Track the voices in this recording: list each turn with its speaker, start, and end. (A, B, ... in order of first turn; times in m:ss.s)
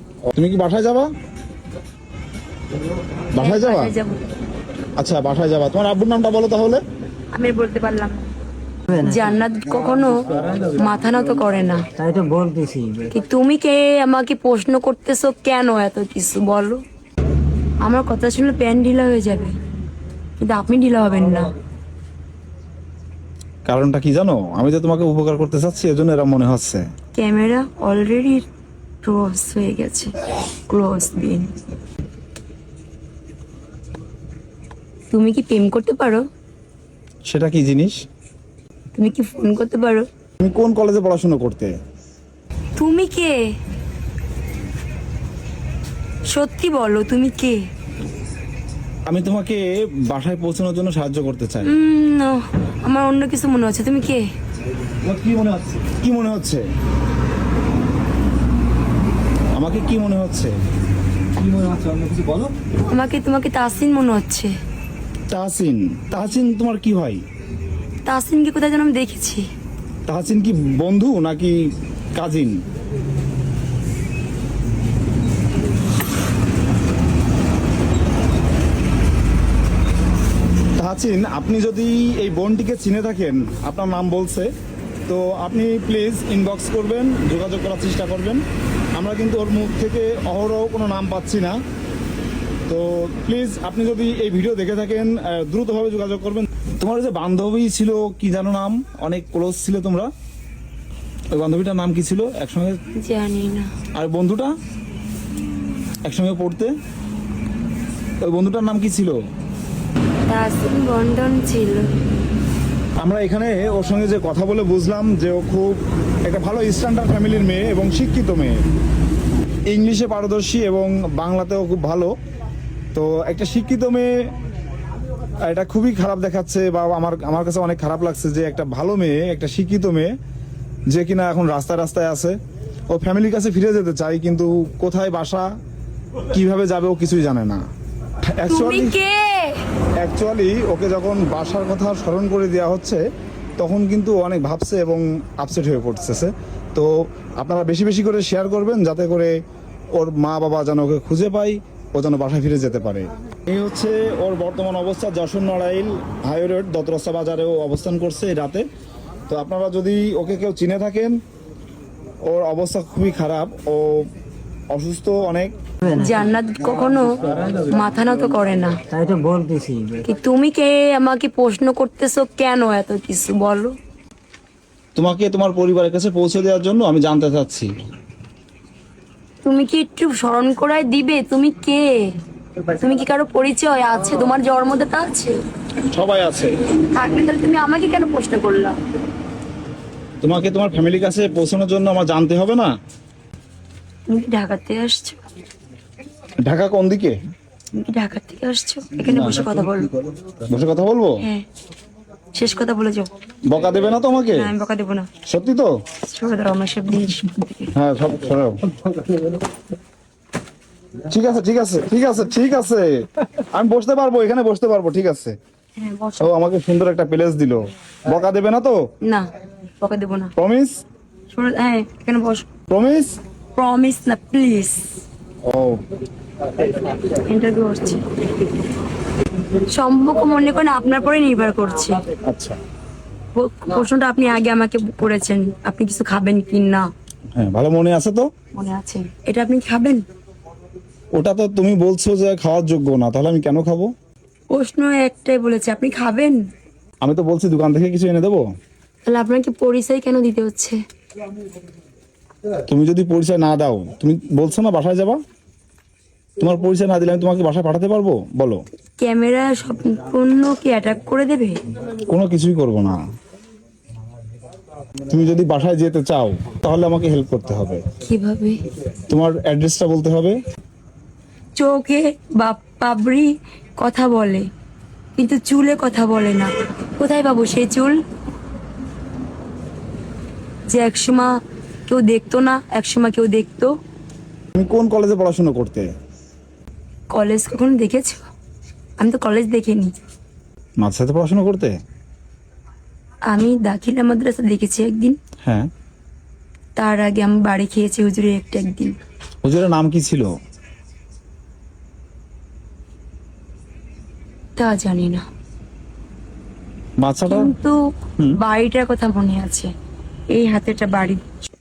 0:00.3-0:01.1 A
0:03.3-0:03.9 A
0:03.4-0:04.2 B
0:05.0-0:06.8 A
0:07.3-0:08.3 B
0:09.0-0:11.9 B
0:12.0-0:13.1 C
0:13.1-0:16.8 B
0:17.8-0:19.6 B
0:20.4-0:21.5 B
0:23.7-0:26.8 A
0:27.2-0:28.5 B
0:29.0-0:30.1 B
0:30.7-0:31.5 B
0:35.1-0:36.2 B
0:37.3-0:38.0 A
0:39.0-0:40.0 B
0:40.4-0:41.7 A
0:42.8-0:43.4 B
0:46.3-0:47.6 B
0:49.1-0:51.7 A
0:51.6-0:54.2 B
0:55.0-0:56.6 A
0:59.6-1:00.5 A
1:01.4-1:02.5 A
1:02.8-1:04.5 B
1:05.3-1:07.2 A
1:08.1-1:09.5 B
1:10.1-1:12.6 A
1:20.8-1:24.5 A
1:25.1-1:31.6 A
1:32.7-1:40.1 A
1:41.3-1:42.8 A
1:43.0-1:43.7 B
1:44.0-1:44.5 A
1:46.0-1:46.7 A
1:48.2-1:49.2 A
1:50.3-1:51.9 B
1:53.0-1:58.6 A
1:59.7-2:02.2 A
2:02.9-2:04.3 A
2:05.4-2:10.1 A
2:10.9-2:12.4 A
2:12.9-2:15.5 A
2:16.3-2:17.6 A
2:18.4-2:19.0 A
2:18.5-2:19.6 B
2:20.0-2:23.0 A
2:23.6-2:29.4 A
2:30.0-2:38.7 A
2:39.3-2:41.2 A
2:42.2-2:44.1 A
2:44.7-2:45.6 A
2:45.9-2:48.8 B
2:48.9-2:50.0 C
2:50.0-2:53.7 B
2:55.0-2:57.7 A
2:59.4-3:02.0 B
3:02.6-3:05.4 B
3:05.9-3:06.5 A
3:06.9-3:08.8 B
3:10.2-3:12.7 A
3:14.1-3:15.2 B
3:16.4-3:17.2 A
3:17.8-3:19.9 B
3:19.0-3:19.4 A
3:20.5-3:21.2 A
3:22.4-3:23.1 B
3:23.5-3:24.5 A
3:24.3-3:25.1 B
3:25.2-3:25.8 A
3:26.0-3:27.7 B
3:27.8-3:28.6 A
3:31.1-3:35.4 A
3:35.8-3:36.3 B
3:36.2-3:38.8 A
3:39.0-3:40.3 B
3:40.4-3:40.8 A
3:41.3-3:42.5 B
3:42.7-3:43.2 A
3:43.6-3:45.0 B
3:45.4-3:45.8 A
3:46.8-3:48.0 B
3:49.7-3:52.0 B
3:52.2-3:52.6 A
3:53.3-3:56.9 B
3:57.4-3:58.3 A
3:58.6-4:00.0 B
4:01.2-4:03.9 A
4:04.5-4:06.4 B
4:07.0-4:08.4 A
4:09.1-4:10.8 B
4:12.7-4:15.2 A
4:16.4-4:18.6 A
4:19.0-4:21.6 B
4:22.1-4:23.0 A
4:25.1-4:27.8 A
4:28.0-4:28.6 B
4:29.1-4:30.4 A
4:31.6-4:34.5 B
4:35.2-4:38.0 B
4:40.7-4:41.3 B
4:41.9-4:43.7 B
4:44.5-4:45.9 A
4:47.1-4:48.2 B
4:49.0-4:50.0 B
4:50.8-4:51.7 A
4:53.3-4:55.2 B
4:56.8-4:59.0 B
4:59.4-5:00.3 A
5:04.6-5:05.2 B
5:07.0-5:07.5 A
5:07.3-5:07.8 B
5:08.4-5:09.7 B
5:10.3-5:11.2 B